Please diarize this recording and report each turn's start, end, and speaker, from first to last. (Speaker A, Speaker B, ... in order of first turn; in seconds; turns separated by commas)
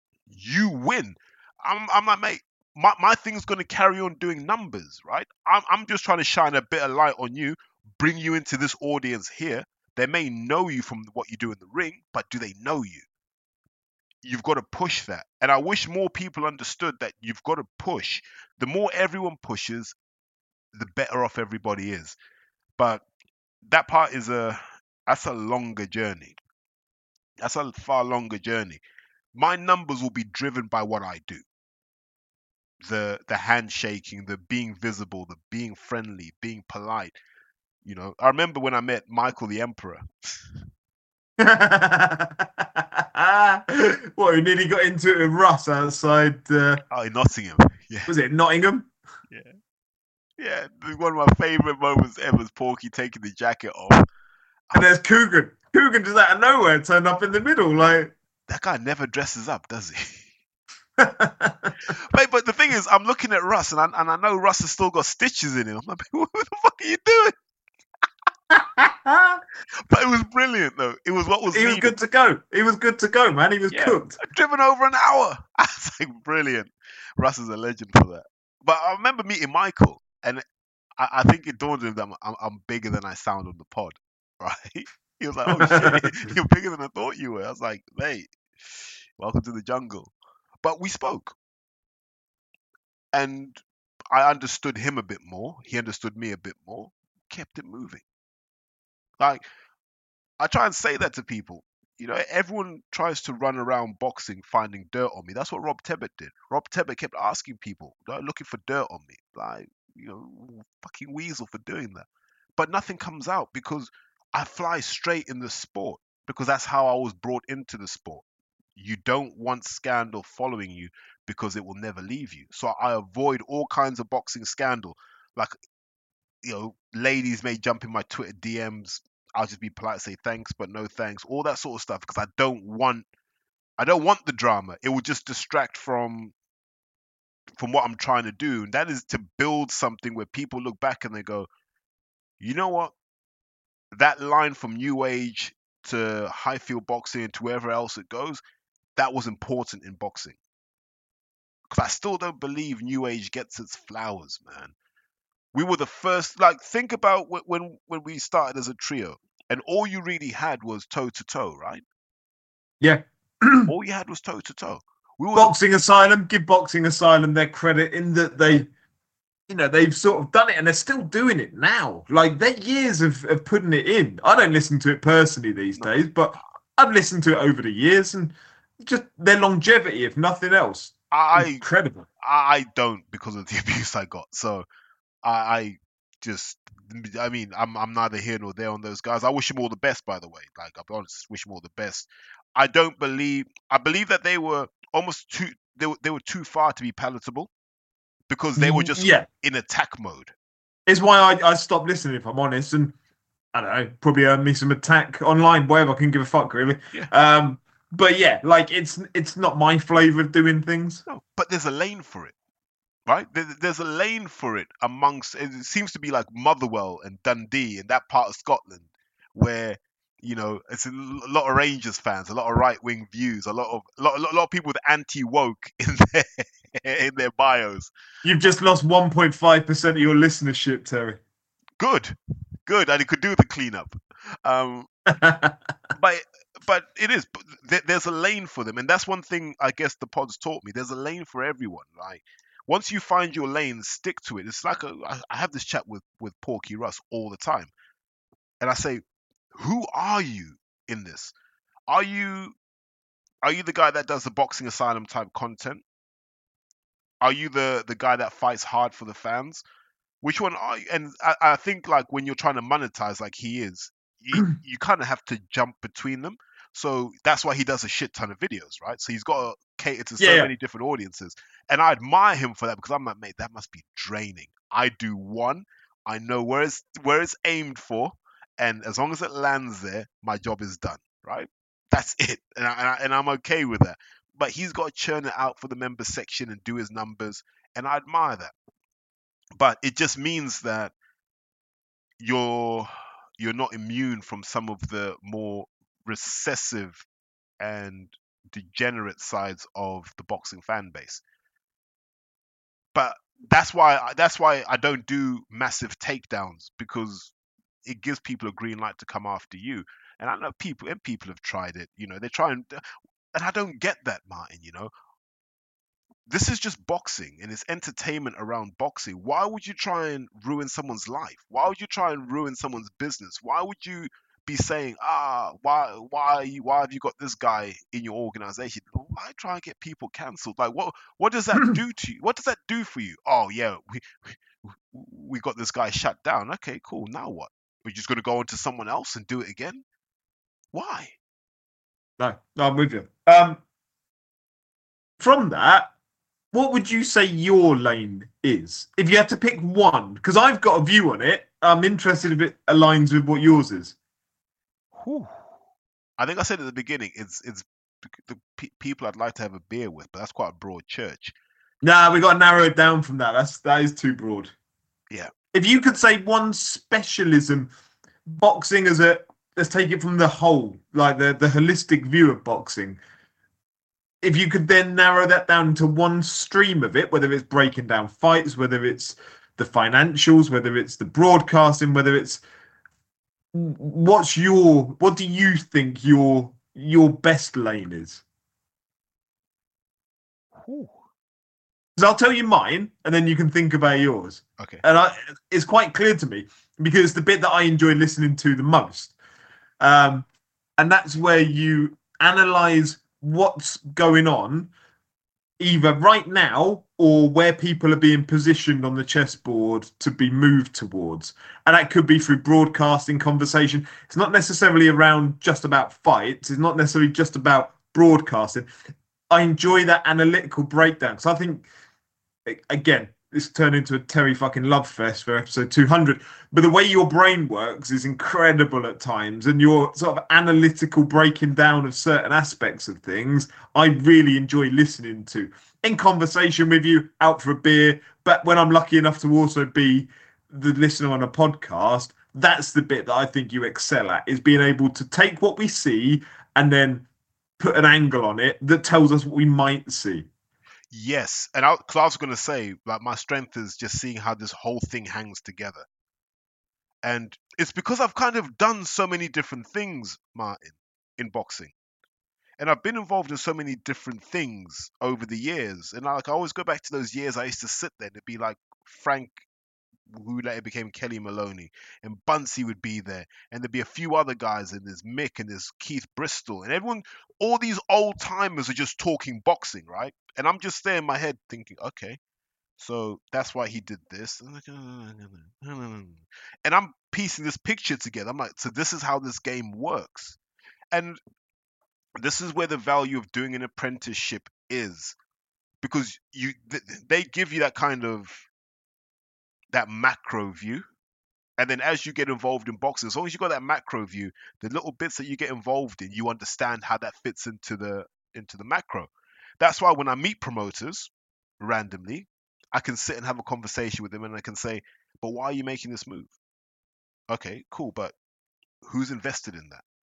Speaker A: 0.3-13.1, Speaker A: 14.2-20.0, Speaker A: 20.7-22.1, Speaker A: 22.8-23.0, Speaker A: 23.6-26.4, Speaker A: 27.4-28.8, Speaker A: 29.3-31.4, Speaker A: 32.8-37.2, Speaker A: 37.8-40.4, Speaker B: 41.4-46.8, Speaker A: 46.9-48.1, Speaker B: 48.1-48.9, Speaker A: 49.3-49.6, Speaker A: 50.4-54.1, Speaker B: 54.7-58.1, Speaker A: 58.5-60.3, Speaker B: 61.0-61.7, Speaker A: 61.9-67.3, Speaker B: 68.5-69.4, Speaker A: 69.9-71.9, Speaker B: 71.5-74.2, Speaker A: 73.7-80.4, Speaker A: 81.0-90.1, Speaker B: 85.5-86.0, Speaker A: 90.6-91.3, Speaker A: 93.1-98.0, Speaker A: 99.2-99.4, Speaker A: 100.4-112.1, Speaker A: 112.6-118.2, Speaker A: 118.8-125.6, Speaker A: 126.4-133.1, Speaker A: 133.8-136.3, Speaker A: 137.6-141.5, Speaker A: 142.4-142.9, Speaker A: 143.9-148.4, Speaker A: 149.0-150.4, Speaker A: 151.7-154.7, Speaker A: 155.5-161.8, Speaker B: 162.8-163.7, Speaker A: 163.7-165.6, Speaker B: 165.3-168.7, Speaker B: 169.5-182.1, Speaker A: 181.1-181.7, Speaker A: 182.2-184.7, Speaker A: 185.2-197.5, Speaker A: 198.3-200.3, Speaker B: 198.6-199.3, Speaker B: 200.9-202.9, Speaker B: 203.5-211.0, Speaker A: 211.1-212.3, Speaker A: 213.1-227.9, Speaker B: 228.2-231.2, Speaker A: 231.8-234.9, Speaker B: 235.1-235.6, Speaker A: 236.0-247.7, Speaker A: 248.6-251.3, Speaker A: 251.9-252.6, Speaker A: 253.4-255.8, Speaker A: 257.2-259.6, Speaker A: 260.2-288.5, Speaker B: 270.2-270.5, Speaker A: 289.6-290.9, Speaker A: 292.2-297.1, Speaker A: 297.6-301.2, Speaker A: 302.9-307.3, Speaker A: 307.9-312.8, Speaker A: 313.3-314.9, Speaker A: 316.3-339.8, Speaker A: 340.7-341.2, Speaker B: 342.2-343.6, Speaker B: 345.2-345.9, Speaker B: 346.5-353.9, Speaker A: 354.9-355.4, Speaker A: 356.2-361.3, Speaker B: 361.8-364.5, Speaker B: 365.5-367.7, Speaker B: 368.3-373.0, Speaker B: 374.2-382.4, Speaker B: 383.5-388.2, Speaker A: 390.6-391.0, Speaker B: 392.0-399.1, Speaker A: 394.6-394.8, Speaker B: 399.8-400.3, Speaker B: 400.8-404.7, Speaker B: 405.6-418.7, Speaker B: 419.3-421.7, Speaker B: 422.4-447.1, Speaker B: 447.6-450.3, Speaker A: 450.9-455.9, Speaker A: 457.1-461.7, Speaker A: 462.6-469.4, Speaker A: 470.1-482.2, Speaker A: 482.8-490.4, Speaker A: 490.9-491.2, Speaker A: 492.2-495.2, Speaker A: 495.8-498.4, Speaker A: 499.7-500.9, Speaker A: 501.6-516.3, Speaker A: 517.3-518.1, Speaker A: 518.8-519.8